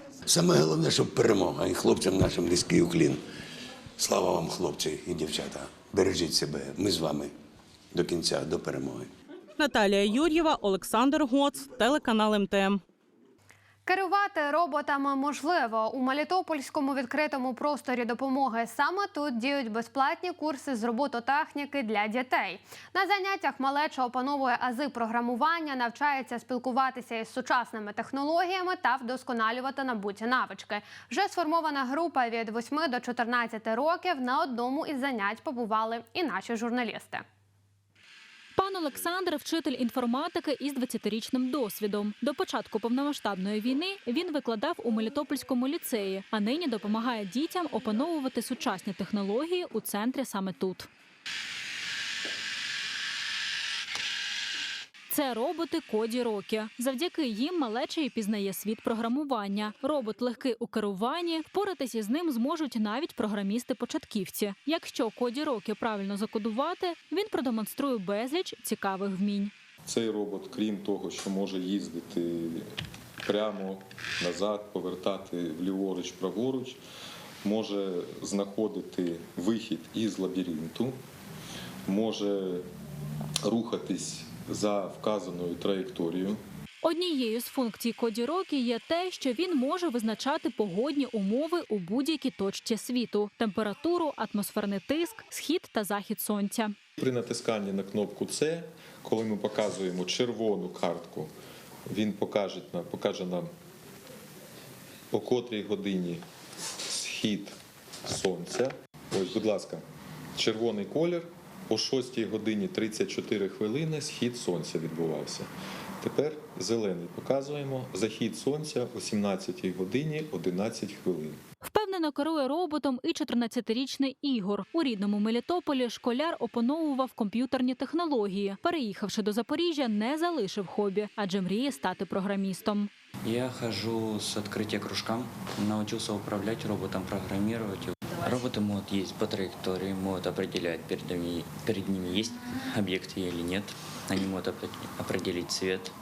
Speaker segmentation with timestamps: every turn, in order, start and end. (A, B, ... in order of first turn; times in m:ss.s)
0:00.2-0:03.2 A
0:04.0-0:07.3 A
0:07.9-0:09.1 A
0:09.6-0:12.8 B
0:13.9-0:37.2 C
0:38.6-0:50.9 D
0:55.1-1:09.5 D
1:09.8-1:12.7 E
1:13.2-1:16.8 E
1:17.4-1:21.0 E
1:21.9-1:22.6 E
1:23.4-1:26.4 E
1:26.8-1:36.8 D
1:37.0-1:41.3 E
1:41.9-1:43.5 E
1:45.1-1:46.2 E
1:46.9-1:49.8 E
1:50.4-2:01.4 E
2:01.6-2:12.9 D
2:13.2-2:25.9 F